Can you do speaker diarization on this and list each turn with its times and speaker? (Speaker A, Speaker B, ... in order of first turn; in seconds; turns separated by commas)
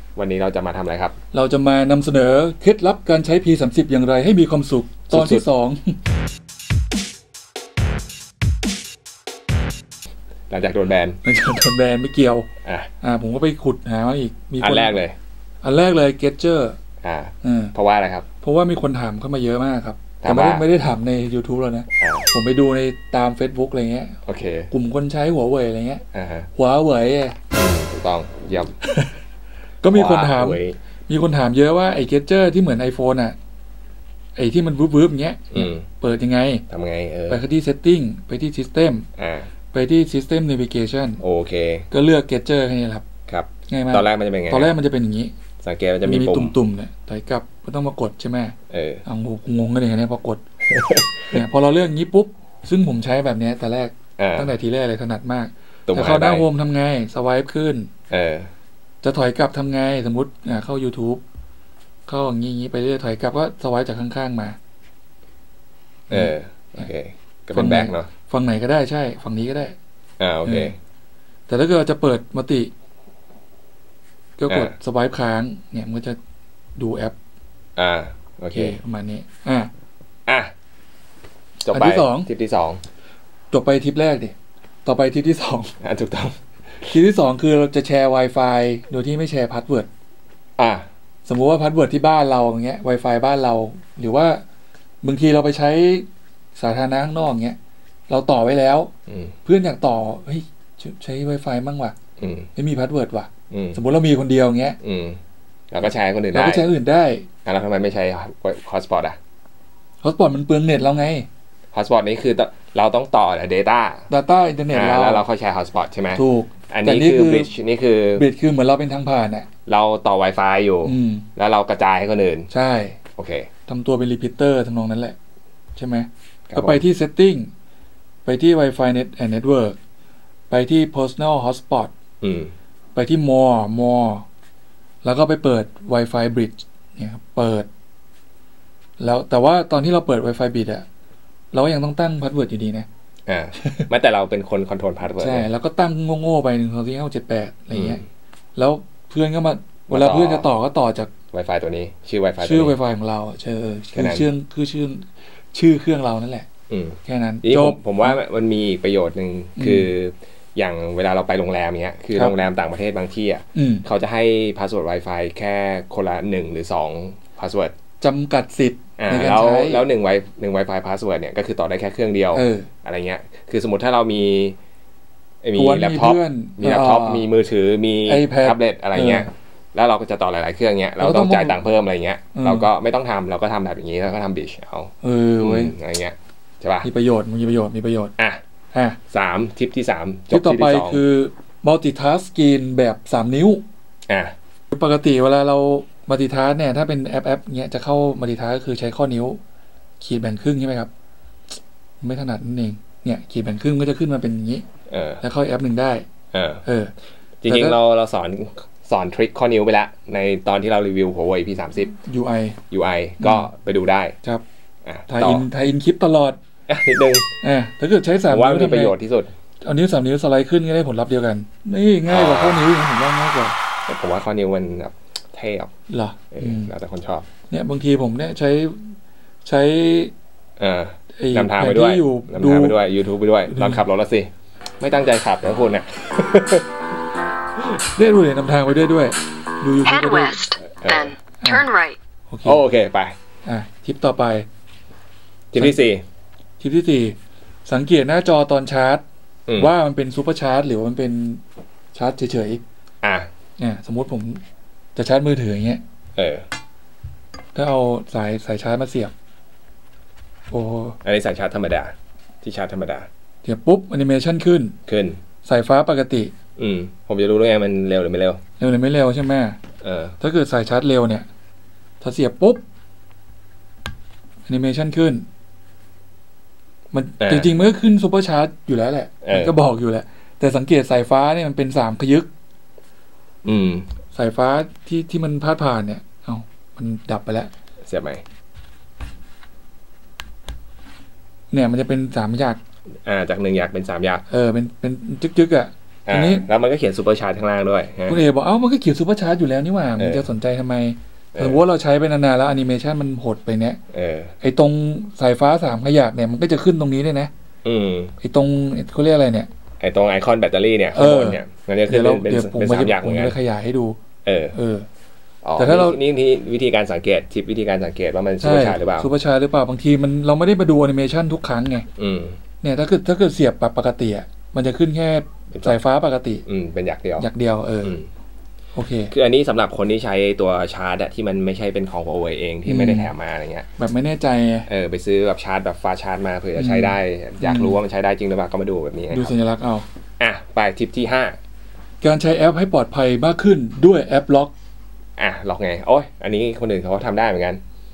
Speaker A: 0.2-1.1, Speaker B: 1.3-6.0, Speaker A: 5.1-5.5, Speaker A: 10.5-11.2, Speaker B: 11.2-12.5, Speaker B: 13.0-15.0, Speaker A: 14.6-15.2, Speaker B: 15.6-16.8, Speaker A: 17.0-18.2, Speaker B: 17.4-17.7, Speaker B: 18.4-24.2, Speaker A: 20.2-20.6, Speaker A: 22.0-22.3, Speaker A: 24.3-24.7, Speaker B: 24.7-26.0, Speaker A: 26.1-26.5, Speaker B: 26.6-27.4, Speaker A: 27.5-28.8, Speaker B: 28.8-29.1, Speaker B: 29.8-33.4, Speaker A: 29.9-30.8, Speaker B: 34.4-36.6, Speaker A: 35.5-35.9, Speaker A: 36.7-37.4, Speaker B: 37.3-39.1, Speaker A: 39.2-39.5, Speaker B: 39.7-41.2, Speaker A: 41.2-41.9, Speaker B: 41.9-43.0, Speaker A: 43.3-44.7, Speaker B: 43.7-45.3, Speaker A: 45.6-46.6, Speaker B: 46.0-50.4, Speaker A: 48.7-49.0, Speaker A: 50.7-51.4, Speaker B: 51.3-57.9, Speaker A: 54.2-54.5, Speaker A: 55.9-56.5, Speaker A: 58.1-58.5, Speaker B: 59.0-61.2, Speaker B: 62.1-64.6, Speaker A: 66.1-68.1, Speaker B: 66.1-66.9, Speaker B: 67.5-69.8, Speaker A: 70.2-70.8, Speaker B: 70.5-70.7, Speaker B: 71.5-72.7, Speaker B: 74.4-76.2, Speaker B: 76.8-77.2, Speaker A: 77.8-78.8, Speaker B: 78.5-79.7, Speaker A: 80.3-80.5, Speaker A: 81.6-82.8, Speaker B: 81.7-82.3, Speaker B: 83.5-84.3, Speaker B: 84.8-85.7, Speaker A: 85.8-86.4, Speaker B: 86.9-89.9, Speaker A: 90.6-90.9, Speaker B: 91.3-94.4, Speaker B: 95.0-97.6, Speaker B: 98.1-98.9, Speaker A: 99.1-99.3, Speaker B: 99.5-102.0, Speaker A: 102.2-102.5, Speaker B: 102.6-104.8, Speaker A: 103.5-103.8, Speaker A: 104.8-105.2, Speaker A: 105.7-106.7, Speaker B: 106.3-107.3, Speaker A: 107.5-109.2, Speaker B: 110.0-111.3, Speaker A: 111.7-114.1, Speaker B: 114.1-115.2, Speaker A: 114.7-118.2, Speaker B: 116.2-117.5, Speaker B: 118.2-119.5, Speaker A: 119.7-122.5, Speaker B: 120.8-121.3, Speaker B: 122.5-123.0, Speaker A: 123.2-123.5, Speaker B: 123.7-125.2, Speaker B: 125.8-127.5, Speaker A: 126.5-126.8, Speaker B: 128.3-129.8, Speaker B: 130.5-131.9, Speaker A: 132.2-132.5, Speaker B: 132.9-134.3, Speaker B: 135.0-137.7, Speaker B: 139.0-140.9, Speaker B: 141.5-142.9, Speaker A: 143.3-145.5, Speaker B: 143.6-143.9, Speaker B: 145.2-148.0, Speaker A: 147.7-148.0, Speaker B: 148.6-151.1, Speaker A: 149.9-150.5, Speaker A: 151.3-152.8, Speaker B: 152.4-156.5, Speaker A: 153.9-154.3, Speaker A: 156.7-167.7, Speaker B: 157.1-158.2, Speaker B: 159.6-159.9, Speaker B: 163.6-163.8, Speaker B: 168.0-169.9, Speaker A: 169.0-174.6, Speaker B: 172.3-172.7, Speaker A: 175.4-186.9, Speaker B: 175.6-177.3, Speaker B: 178.1-179.3, Speaker B: 181.0-181.6, Speaker B: 182.3-182.7, Speaker B: 185.0-185.8, Speaker B: 186.8-188.2, Speaker B: 188.7-189.0, Speaker A: 189.1-191.0, Speaker B: 190.3-193.6, Speaker A: 194.1-194.3, Speaker B: 194.7-199.4, Speaker B: 200.0-200.9, Speaker B: 202.0-204.6, Speaker A: 204.9-205.2, Speaker B: 205.2-206.1, Speaker A: 206.3-206.6, Speaker B: 206.7-206.9, Speaker A: 207.4-212.0, Speaker B: 207.5-207.8, Speaker B: 212.0-212.6, Speaker A: 212.7-214.2, Speaker B: 213.2-213.5, Speaker A: 214.8-215.5, Speaker B: 215.1-216.4, Speaker A: 216.7-217.3, Speaker B: 217.4-219.0, Speaker A: 218.3-219.3, Speaker B: 219.6-223.6, Speaker A: 222.1-222.7, Speaker A: 223.9-225.7, Speaker B: 225.9-226.7, Speaker A: 226.3-227.3, Speaker B: 227.5-230.1, Speaker A: 230.6-236.7, Speaker B: 231.2-232.8, Speaker B: 233.5-233.8, Speaker B: 237.9-240.4, Speaker C: 239.8-242.0, Speaker A: 240.6-241.1, Speaker B: 241.4-241.7, Speaker B: 242.3-242.6, Speaker A: 242.4-243.2, Speaker B: 243.5-244.5, Speaker A: 245.5-246.0, Speaker B: 246.6-249.0, Speaker A: 249.5-249.7, Speaker B: 249.6-251.4, Speaker B: 251.9-252.6, Speaker A: 253.0-253.3, Speaker B: 253.6-254.4, Speaker B: 254.9-255.8, Speaker A: 256.2-256.5, Speaker B: 257.6-259.1, Speaker B: 260.5-261.0, Speaker A: 261.0-263.1, Speaker B: 263.4-264.8, Speaker A: 264.9-265.2, Speaker B: 265.4-266.3, Speaker A: 266.6-268.4, Speaker B: 268.6-269.6, Speaker A: 269.8-270.2, Speaker B: 270.2-271.3, Speaker B: 272.0-272.6, Speaker B: 274.5-275.3, Speaker B: 276.9-282.3, Speaker A: 277.2-277.5, Speaker A: 279.2-279.5, Speaker A: 283.4-283.9, Speaker B: 284.1-287.5, Speaker A: 287.8-288.2, Speaker B: 291.5-292.6, Speaker A: 293.1-294.2, Speaker B: 294.3-296.5, Speaker A: 296.1-298.2, Speaker B: 298.1-303.8, Speaker A: 300.0-300.3, Speaker A: 301.4-301.6, Speaker A: 303.9-304.3, Speaker B: 304.4-307.3, Speaker A: 307.6-308.1, Speaker B: 308.2-309.5, Speaker A: 309.8-313.4, Speaker B: 310.9-314.0, Speaker A: 314.2-314.6, Speaker B: 314.5-314.9, Speaker A: 315.4-319.1, Speaker B: 315.6-316.0, Speaker B: 318.4-321.9, Speaker A: 322.0-322.4, Speaker B: 322.6-326.4, Speaker A: 326.5-327.3, Speaker B: 327.2-327.9, Speaker B: 328.8-329.1, Speaker A: 329.1-333.7, Speaker B: 332.7-333.1, Speaker B: 333.8-334.7, Speaker A: 334.7-339.3, Speaker B: 336.6-337.8, Speaker B: 339.1-339.9, Speaker A: 340.2-341.4, Speaker B: 342.0-344.5, Speaker A: 345.2-347.6